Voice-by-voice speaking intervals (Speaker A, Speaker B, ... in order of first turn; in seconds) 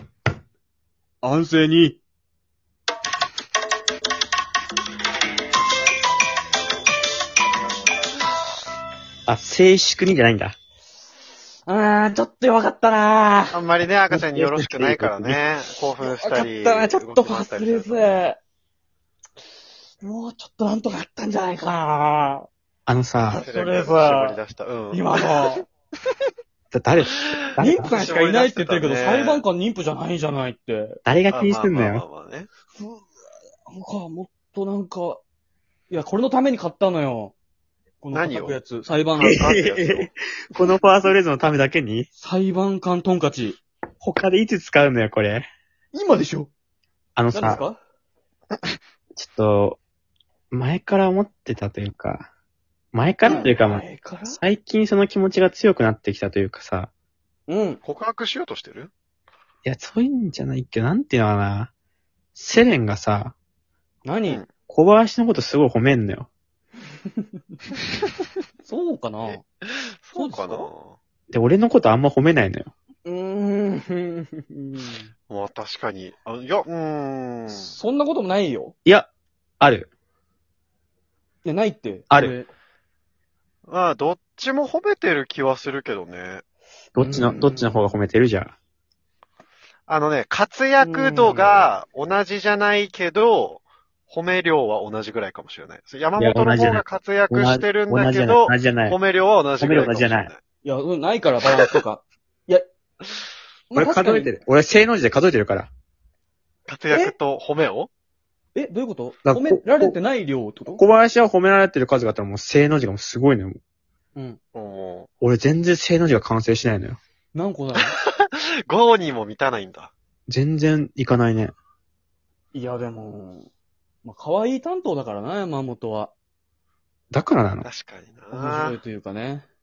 Speaker A: 1.2-2.0, 11.7-13.6, 16.0-18.4, 20.0-22.5, 23.3-24.4, 24.9-25.7, 27.6-31.0, 32.8-33.0, 33.7-35.2, 35.9-37.3, 38.0-40.1, 42.2-43.6, 45.9-46.5, 47.3-47.8, 53.2-54.4, 57.5-57.8, 64.0-64.4, 68.6-69.4, 70.1-70.7, 73.0-75.1, 77.5-78.7, 81.4-82.5, 87.0-87.8, 90.8-91.7, 100.6-102.6, 103.7-104.3, 106.9-107.1, 108.5-110.8, 117.3-117.9, 122.5-123.5, 124.0-126.1, 128.3-129.5
Speaker B: 9.3-10.5, 14.1-15.4, 22.9-23.4, 26.7-27.9, 31.0-32.0, 39.2-42.1, 44.0-45.5, 47.1-47.6, 49.1-49.8, 50.5-52.3, 52.9-56.9, 59.6-61.7, 62.3-63.3, 64.7-66.3, 71.3-72.7, 78.8-79.9, 82.1-82.3, 86.9-88.5, 96.2-99.0, 99.6-100.3, 103.7-105.7, 109.2-110.0, 110.8-113.6, 115.2-117.0, 120.3-121.5, 127.1-127.7
Speaker C: 13.5-18.2, 23.4-25.6, 27.2-29.4, 31.3-32.5, 38.1-38.6, 39.3-40.0, 57.8-58.9, 69.2-71.0, 75.3-77.7, 83.7-86.4, 89.9-100.4, 106.7-107.9, 114.5-115.1, 117.8-119.9, 127.6-128.8